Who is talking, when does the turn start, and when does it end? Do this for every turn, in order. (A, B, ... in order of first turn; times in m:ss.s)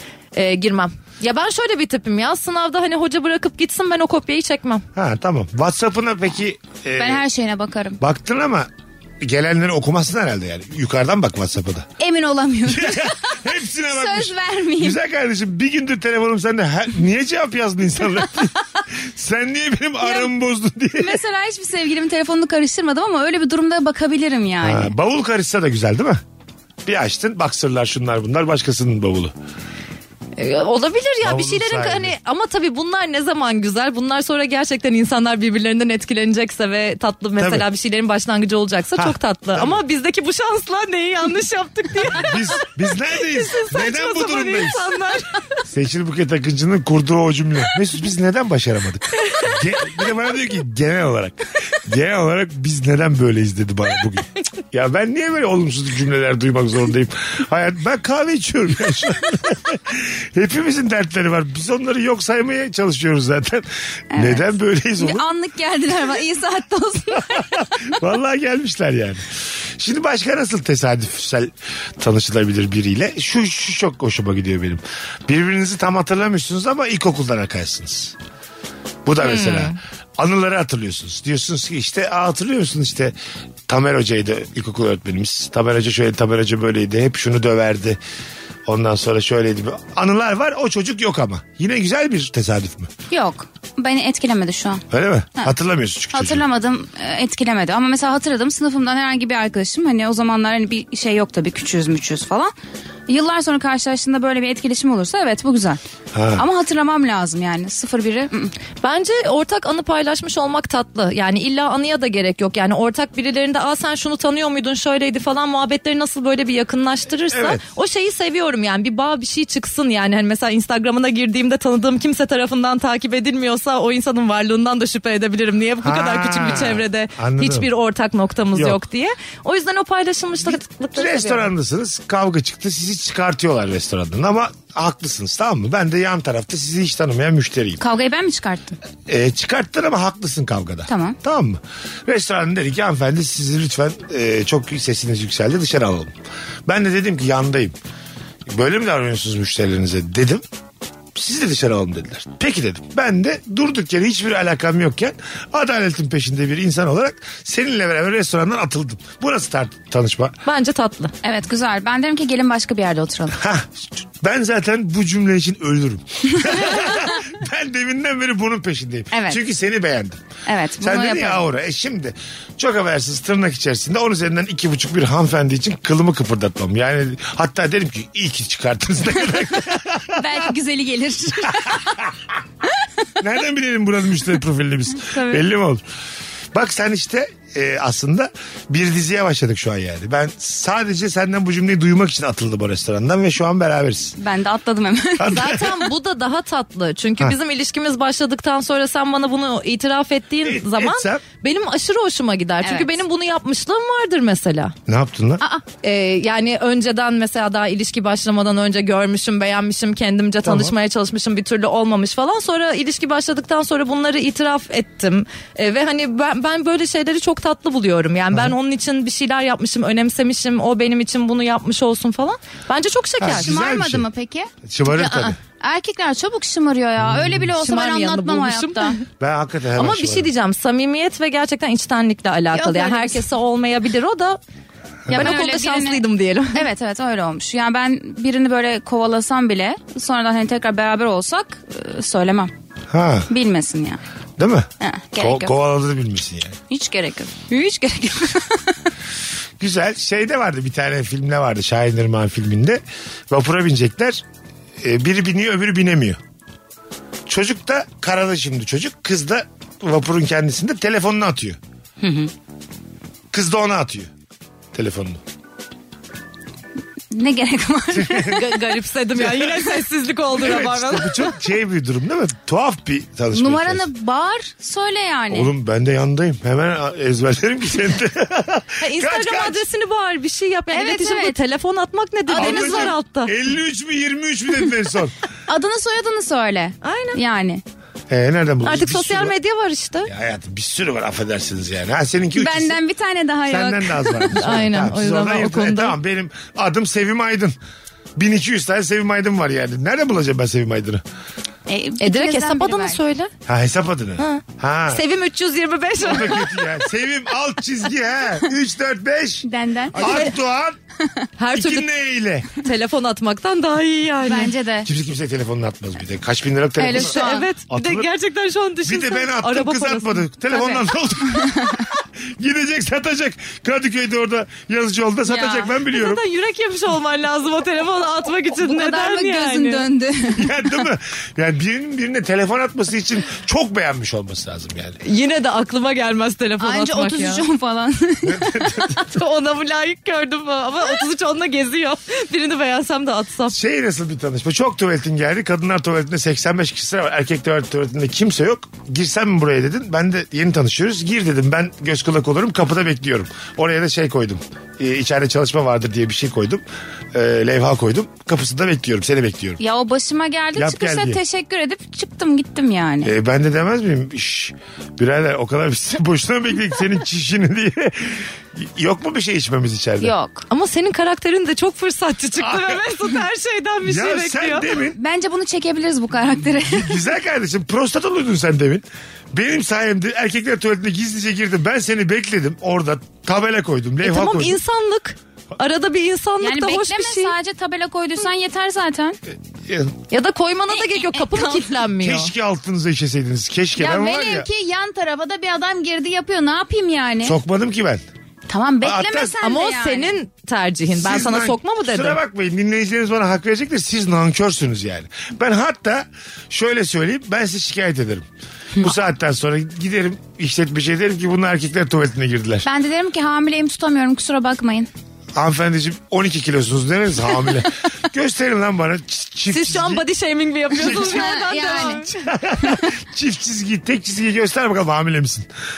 0:00.3-0:04.8 A
0:04.9-0:07.2 B
0:07.0-0:08.0 C
0:08.0-0:08.7 B
0:09.2-0:11.9 B
0:12.0-0:15.0 C
0:12.7-0:21.2 B
0:20.0-0:20.3 C
0:21.0-0:24.9 C
0:24.6-0:26.2 B
0:26.8-0:29.3 B
0:30.4-0:45.6 A
0:31.2-0:32.1 B
0:37.4-0:37.6 B
0:39.0-0:39.8 B
0:42.1-0:44.9 B
0:45.7-1:05.2 B
0:49.2-0:49.6 A
1:04.1-1:08.0 C
1:07.4-1:18.2 B
1:19.0-1:23.1 B
1:19.2-1:19.8 A
1:23.7-1:28.0 B
1:28.6-1:32.9 B
1:33.1-1:34.8 C
1:34.9-1:36.4 B
1:36.1-1:42.5 C
1:43.1-1:45.8 C
1:46.1-1:46.4 B
1:46.3-1:48.5 C
1:48.8-2:11.5 A
1:57.3-1:57.6 B
2:05.8-2:07.7 B
2:08.5-2:08.8 B
2:10.4-2:17.8 B
2:17.8-2:18.8 C
2:19.1-2:26.1 B
2:20.9-2:21.2 C
2:26.6-2:27.7 B
2:28.5-2:30.4 B
2:31.1-2:40.4 B
2:40.4-2:41.1 A
2:41.2-2:43.4 C
2:43.3-2:50.2 B
2:49.1-2:49.4 C
2:50.4-2:51.4 C
2:50.8-3:00.4 B
3:00.1-3:02.0 C
3:01.6-3:02.2 B
3:03.2-3:05.8 B
3:05.0-3:05.4 C
3:06.5-3:14.2 B
3:14.2-3:15.7 C
3:15.2-3:15.8 B
3:15.3-3:24.7 A
3:20.4-3:21.2 B
3:22.6-3:23.0 C
3:24.9-3:25.4 B
3:25.8-3:43.6 A
3:30.4-3:30.7 B
3:43.2-3:44.0 B
3:43.3-3:49.0 C
3:44.6-3:45.4 B
3:47.6-3:48.9 A
3:49.2-3:50.3 B
3:49.7-3:54.4 A
3:52.5-3:53.2 C
3:55.0-3:55.4 B
3:55.1-4:02.5 C
3:55.1-3:56.6 A
4:02.9-4:03.3 B
4:03.3-4:04.0 C
4:04.4-4:06.6 B
4:04.8-4:05.5 C
4:06.7-4:08.8 C
4:09.6-4:14.2 B
4:14.8-4:16.2 B
4:17.3-4:21.6 B
4:22.0-4:22.3 C
4:23.3-4:24.1 B
4:24.7-4:25.2 B
4:27.1-4:28.6 C
4:27.9-4:28.4 B
4:28.3-4:31.3 A
4:29.2-4:29.7 B
4:30.3-4:33.8 B
4:33.3-4:35.5 C
4:35.3-4:39.6 B
4:38.8-4:43.3 A
4:40.7-4:41.4 C
4:42.3-4:42.9 C
4:42.3-4:45.2 B
4:45.5-4:47.6 C
4:46.8-4:47.2 A
4:48.1-4:49.3 B
4:48.6-4:50.1 A
4:50.0-4:52.8 B
4:52.3-4:54.5 C
4:53.5-4:57.6 B
4:54.3-4:55.9 A
4:58.2-5:01.0 B
5:01.7-5:03.0 C
5:02.0-5:03.3 A
5:03.4-5:05.0 B
5:04.2-5:06.8 A
5:06.0-5:10.8 B
5:09.4-5:10.3 C
5:10.0-5:10.3 A
5:11.4-5:11.9 A
5:11.5-5:12.6 B
5:12.6-5:14.5 A
5:14.2-5:14.9 C
5:14.8-5:18.1 B
5:16.8-5:17.5 C
5:16.9-5:20.3 A
5:18.9-5:26.2 B
5:20.5-5:21.8 C
5:25.3-5:25.7 C
5:25.9-5:29.8 A
5:28.6-5:30.6 C
5:30.4-5:35.0 B
5:35.0-5:37.4 A
5:36.6-5:39.0 C
5:38.2-5:39.2 B
5:39.0-5:43.6 A
5:43.5-5:59.6 B
5:59.6-6:03.1 C
6:00.6-6:01.2 B
6:03.0-6:10.1 B
6:10.0-6:10.5 C
6:10.5-6:14.7 A
6:12.4-6:12.8 B
6:13.8-6:15.0 B
6:15.0-6:17.0 C
6:16.6-6:24.6 B
6:24.0-6:27.3 A
6:26.4-6:29.2 C
6:29.6-6:29.9 B
6:30.1-6:32.3 A
6:30.7-6:31.7 C
6:32.0-6:34.5 B
6:33.8-6:37.4 C
6:37.2-6:38.0 B
6:38.5-6:40.1 C
6:38.8-6:39.4 B
6:39.4-6:42.2 A
6:40.9-6:48.3 B
6:48.8-6:52.6 B
6:52.6-6:54.9 C
6:55.3-7:00.0 B
6:59.5-7:02.2 A
7:00.7-7:01.4 B
7:00.8-7:02.9 C
7:02.2-7:05.5 B